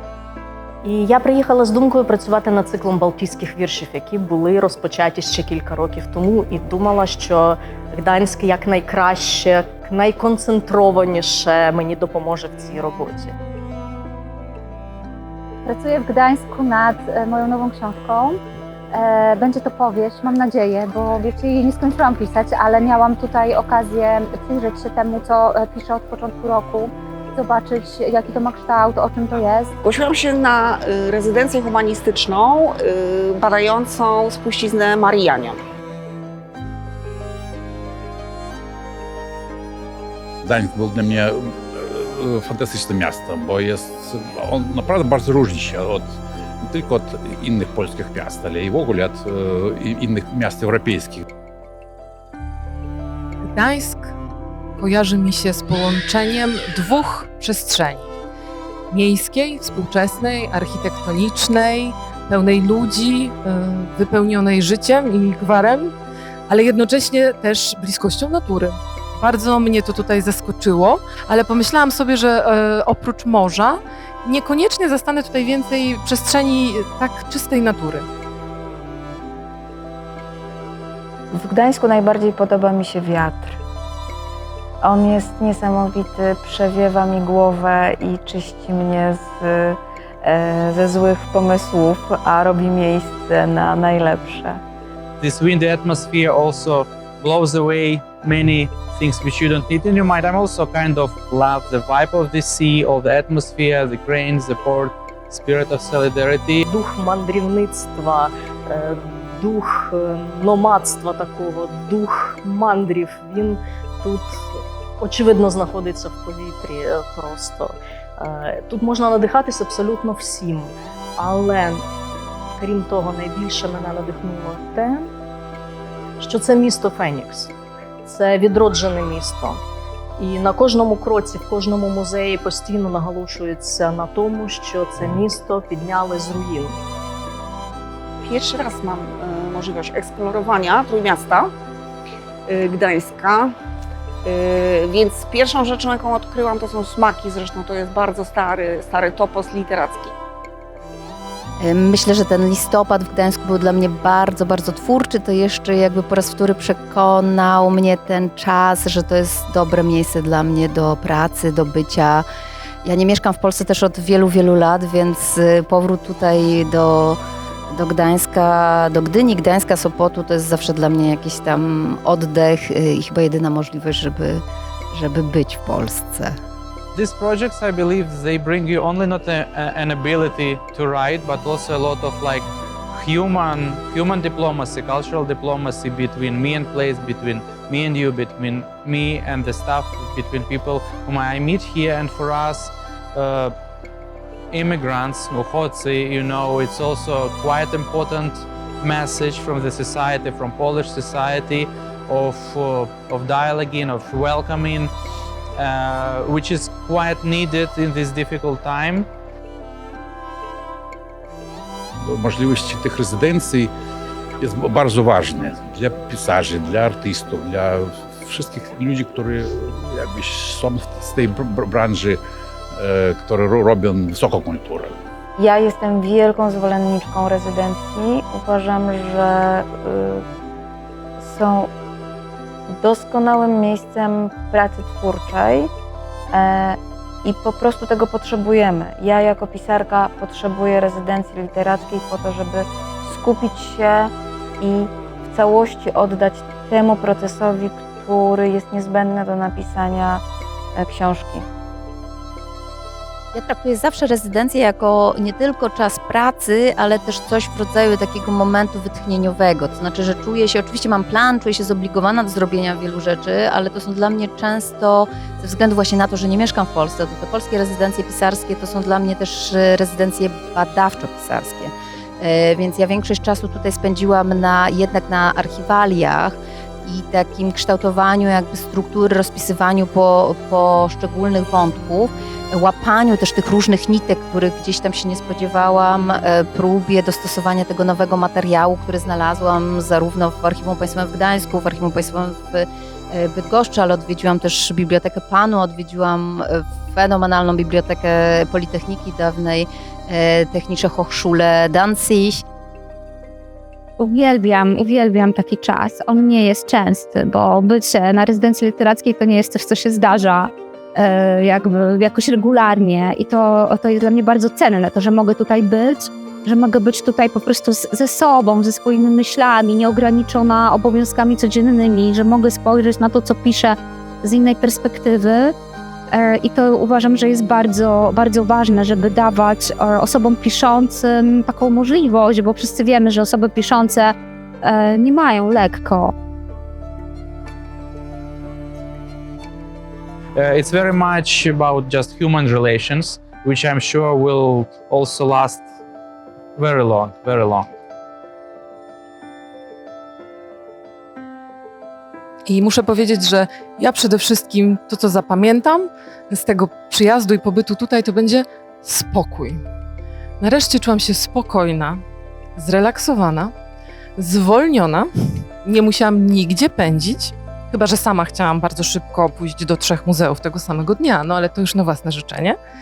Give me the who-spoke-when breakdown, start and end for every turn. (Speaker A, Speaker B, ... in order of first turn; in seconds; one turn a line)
Speaker A: 0.8-13.4
Speaker B: 15.6-18.4
Speaker B: 18.9-29.7
Speaker C: 29.8-35.6
Speaker D: 40.4-51.2
Speaker E: 53.5-54.1
Speaker E: 54.8-58.1
Speaker E: 58.9-65.9
Speaker E: 66.5-78.0
Speaker F: 81.3-83.6
Speaker F: 84.8-94.6
Speaker G: 95.2-106.6
Speaker A: 106.7-121.8
Speaker A: 122.6-125.1
Speaker A: 126.2-129.6
Speaker A: 130.2-136.8
Speaker C: 138.2-141.5
Speaker C: 142.5-143.5
Speaker C: 144.2-150.1
Speaker H: 151.6-162.2
Speaker H: 162.8-176.3
Speaker G: 176.9-193.5
Speaker G: 194.5-204.9
Speaker G: 205.6-209.1
Speaker D: 212.1-213.7
Speaker D: 214.4-222.2
Speaker D: 222.8-224.9
Speaker F: 225.4-230.2
Speaker F: 231.2-231.7
Speaker F: 232.7-235.7
Speaker F: 236.3-250.2
Speaker F: 250.7-251.4
Speaker H: 253.3-302.4
Speaker B: 304.0-325.5
Speaker B: 326.1-336.1
Speaker G: 340.4-345.7
Speaker G: 346.6-347.7
Speaker E: 352.4-359.6
Speaker E: 360.4-362.0
Speaker E: 362.6-363.5
Speaker E: 364.2-372.6